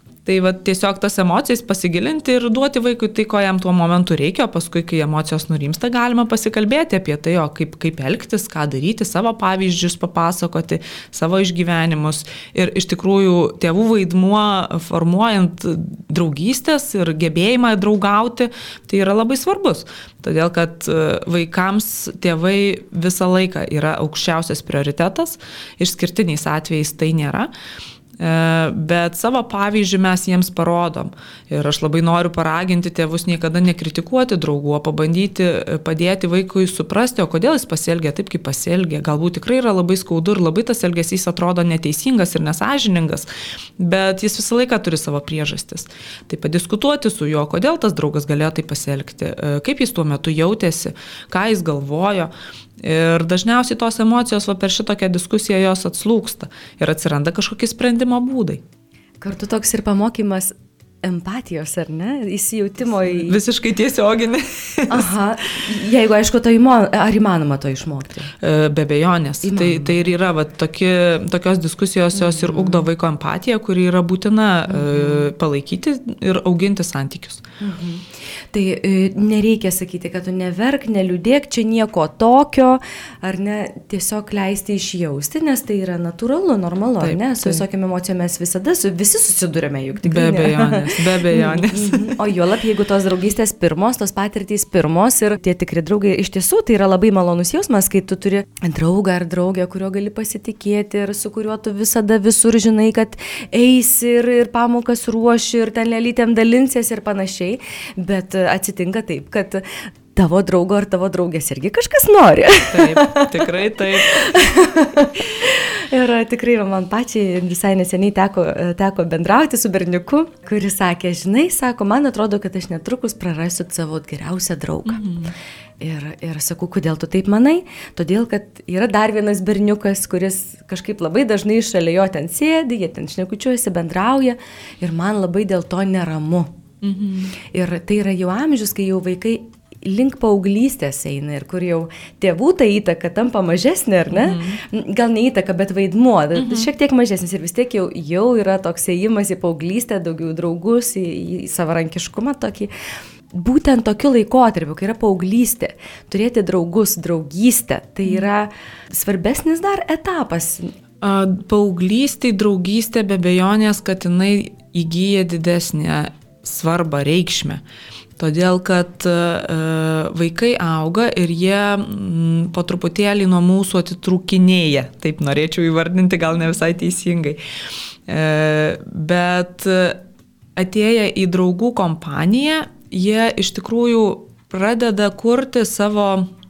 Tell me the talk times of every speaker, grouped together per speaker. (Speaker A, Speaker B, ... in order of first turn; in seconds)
Speaker A: 0.2-27.5, 28.2-58.6, 63.1-65.1, 68.4-77.4, 87.0-87.6, 90.0-92.2, 112.7-114.5, 124.9-125.3, 136.8-137.3, 144.1-144.6, 146.4-146.7, 161.0-167.6, 168.2-177.4, 178.1-180.0, 180.6-186.3
Speaker B: 59.2-63.4, 64.9-68.3, 69.4-70.0, 72.1-72.8, 74.7-75.3, 77.6-125.0, 125.8-136.5, 137.5-152.7, 153.3-160.7